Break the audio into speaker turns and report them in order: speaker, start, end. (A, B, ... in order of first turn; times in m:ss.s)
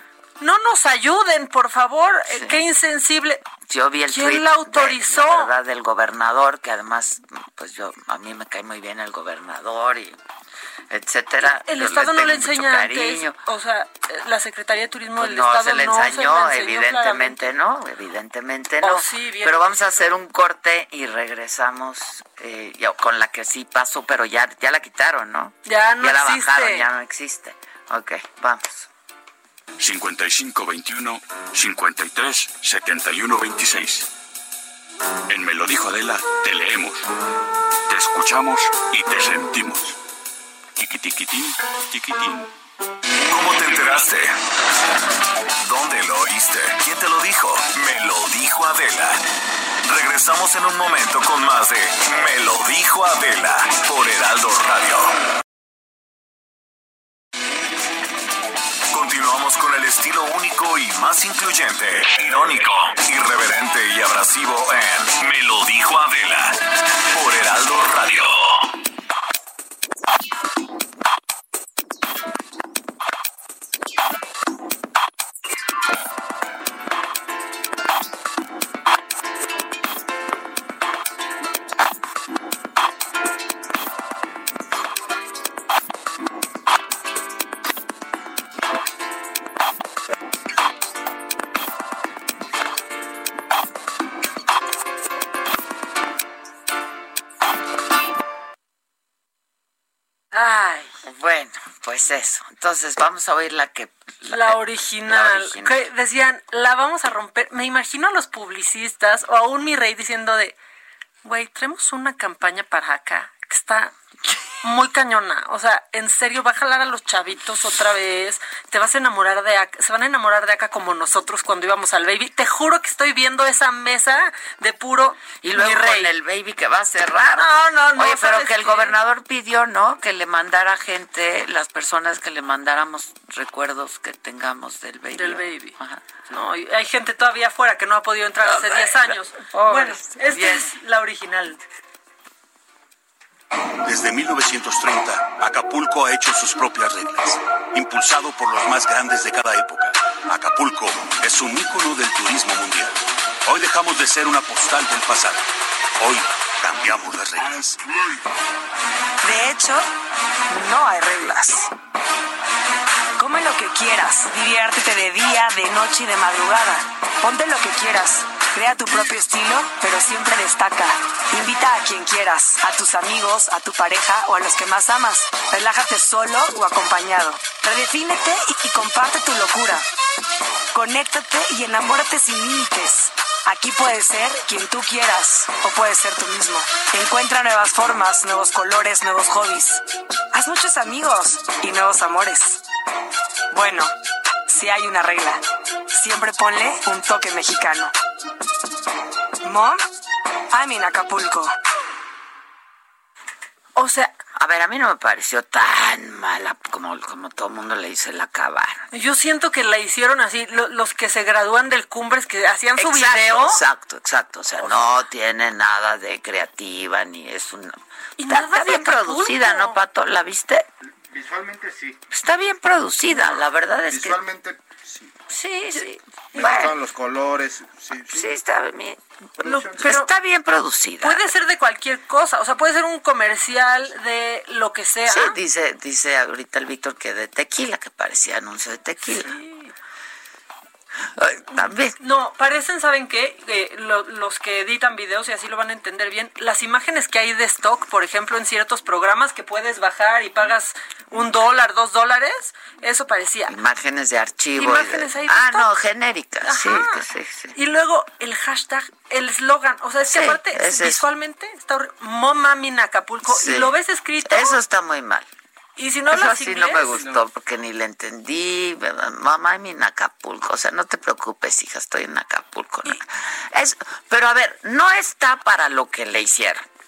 0:00.4-0:03.4 A
0:02.3-0:02.6 B
0:03.7-0:10.2 B
0:04.1-0:05.5 A
0:10.9-0:13.4 B
0:11.6-0:17.4 A
0:15.2-0:28.9 B
0:18.8-0:20.2 A
0:25.6-0:26.9 A
0:29.8-0:34.1 C
0:35.3-0:37.1 C
0:37.9-0:40.0 C
0:40.8-0:42.5 C
0:43.1-0:44.4 D
0:45.6-0:49.2 D
0:49.8-0:55.1 D
0:58.9-1:08.7 D
1:40.3-1:40.9 A
1:41.0-1:45.9 B
1:44.3-1:50.6 A
1:51.2-1:53.9 A
1:54.6-2:06.1 A
2:05.4-2:16.0 B
2:07.3-2:09.0 A
2:15.1-2:15.8 A
2:16.3-2:21.6 A
2:18.4-2:20.7 B
2:23.8-2:35.4 E
2:36.0-2:37.8 E
2:39.2-2:39.9 F
2:40.5-2:41.7 F
2:43.2-2:59.8 F
3:00.7-3:09.8 F
3:10.3-3:12.6 F
3:13.5-3:13.9 F
3:14.5-3:17.9 F
3:19.4-3:19.8 F
3:20.5-3:21.5 F
3:23.8-3:24.1 A
3:24.3-3:28.9 B
3:28.9-3:33.6 A
3:32.8-3:40.6 B
3:38.2-3:39.8 A
3:41.1-3:42.0 G
3:42.1-3:44.2 B
3:43.9-3:45.1 G
3:45.3-3:46.7 B
3:46.3-3:48.4 G
3:48.1-3:49.0 B
3:49.4-3:50.1 A
3:49.4-3:50.0 G
3:49.6-3:51.2 B
3:51.0-3:55.4 A
3:55.1-3:59.3 B
3:59.1-3:59.7 A
4:01.0-4:02.0 B
4:02.0-4:13.6 A
4:13.5-4:17.5 B
4:14.6-4:15.7 A
4:16.4-4:24.6 A
4:20.0-4:21.0 B
4:23.2-4:25.3 B
4:25.8-4:27.1 A
4:26.1-4:36.6 B